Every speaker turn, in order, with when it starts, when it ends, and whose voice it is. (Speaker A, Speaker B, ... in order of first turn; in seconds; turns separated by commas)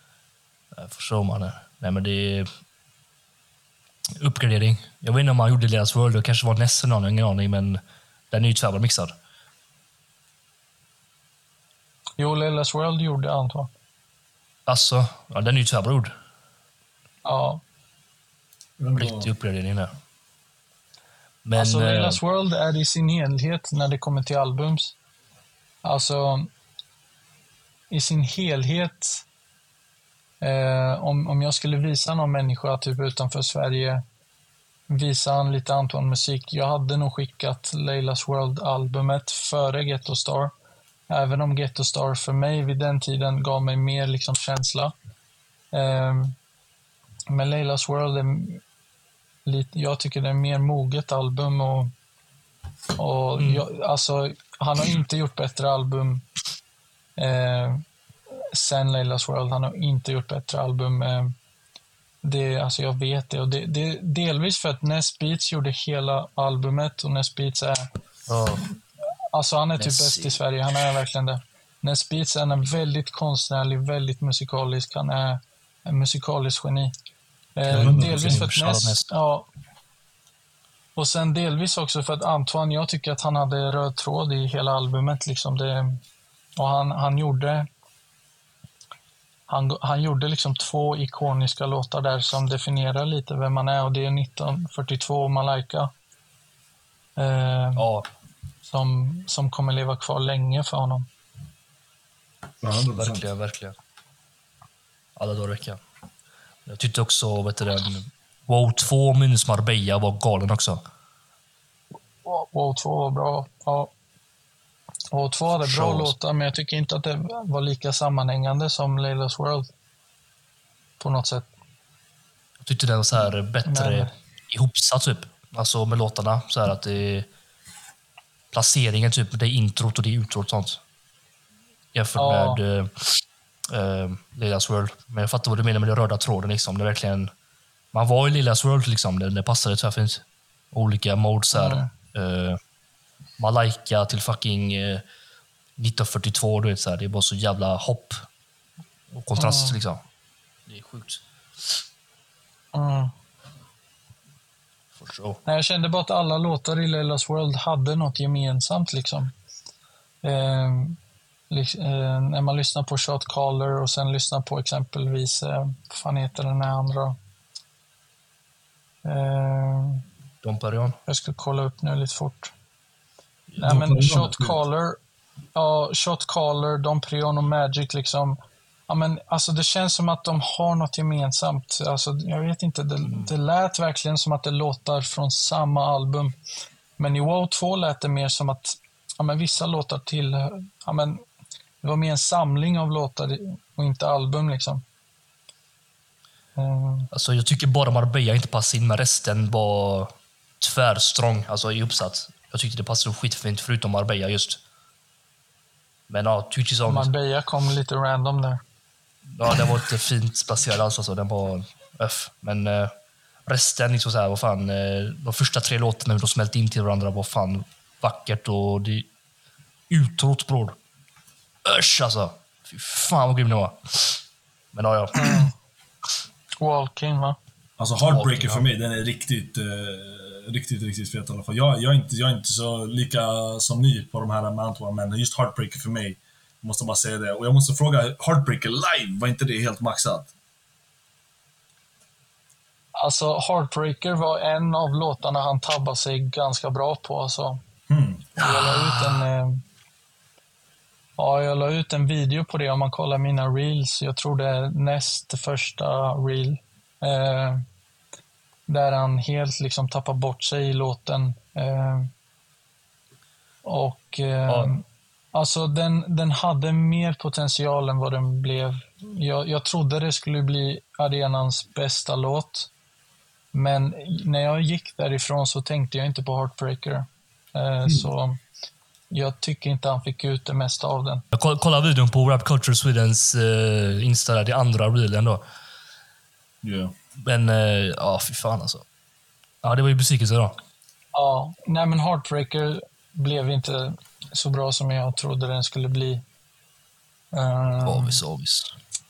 Speaker A: 0.8-2.5, Speaker A: 4.2-9.2, Speaker B: 12.2-13.7, Speaker A: 14.7-16.1, Speaker B: 17.2-17.6, Speaker C: 18.8-19.3, Speaker A: 18.9-19.9, Speaker A: 21.4-22.2, Speaker B: 21.6-24.9, Speaker B: 25.9-26.5, Speaker B: 27.9-29.2, Speaker B: 30.4-34.0, Speaker B: 34.9-40.5, Speaker B: 41.1-44.9, Speaker B: 45.7-46.4, Speaker B: 47.3-48.6, Speaker B: 49.5-51.9, Speaker B: 53.0-56.3, Speaker A: 53.4-53.6, Speaker B: 57.2-57.8, Speaker B: 58.5-61.3, Speaker B: 62.2-67.9, Speaker A: 68.3-68.7, Speaker B: 69.3-76.9, Speaker A: 69.8-70.4, Speaker B: 77.6-79.5, Speaker A: 77.7-79.1, Speaker C: 77.7-78.5, Speaker B: 81.0-86.0, Speaker B: 86.6-87.7, Speaker B: 89.5-95.9, Speaker B: 97.2-97.9, Speaker A: 97.8-98.1, Speaker B: 98.7-101.1, Speaker C: 102.6-103.3, Speaker A: 103.0-103.8, Speaker A: 105.2-105.8, Speaker A: 106.7-110.8, Speaker B: 112.2-113.9, Speaker B: 115.1-119.7, Speaker A: 115.6-116.2, Speaker B: 121.0-121.5, Speaker A: 122.6-127.3, Speaker B: 123.7-124.1, Speaker A: 128.5-130.8, Speaker A: 131.9-133.2, Speaker B: 132.2-132.6, Speaker A: 133.7-137.3, Speaker A: 137.9-142.6, Speaker B: 141.5-141.9, Speaker A: 143.4-145.0, Speaker A: 145.8-148.2, Speaker A: 149.1-150.0, Speaker B: 149.4-149.8, Speaker A: 150.7-151.8, Speaker B: 152.7-153.1, Speaker A: 155.0-155.4, Speaker B: 155.5-159.3, Speaker B: 160.2-161.0, Speaker B: 161.5-167.2, Speaker B: 169.1-170.0, Speaker A: 170.4-171.0, Speaker B: 171.1-172.5, Speaker A: 173.5-173.8, Speaker C: 173.6-174.6, Speaker B: 173.6-175.0, Speaker B: 175.6-178.4, Speaker B: 178.9-186.3, Speaker A: 183.1-183.3, Speaker B: 187.0-191.2, Speaker B: 191.8-194.8, Speaker B: 196.6-197.1, Speaker A: 197.1-204.6, Speaker A: 206.1-207.1, Speaker B: 206.9-208.6, Speaker A: 209.3-212.9, Speaker A: 213.5-219.1, Speaker A: 219.9-220.8, Speaker A: 221.7-224.2, Speaker A: 224.7-225.5, Speaker B: 225.2-225.5, Speaker B: 226.6-227.4, Speaker C: 227.8-240.3, Speaker A: 228.1-228.7, Speaker B: 243.0-247.6, Speaker C: 247.9-248.3, Speaker A: 248.4-249.3, Speaker B: 248.4-249.6, Speaker B: 251.2-257.6, Speaker B: 258.7-262.1, Speaker B: 263.6-264.8, Speaker A: 264.5-264.7, Speaker B: 265.3-272.7, Speaker B: 273.5-278.4, Speaker B: 279.1-281.2, Speaker A: 281.3-285.4, Speaker C: 286.6-286.9, Speaker A: 287.2-288.9, Speaker A: 289.6-290.6, Speaker B: 291.1-296.2, Speaker B: 297.3-298.2, Speaker A: 297.8-298.7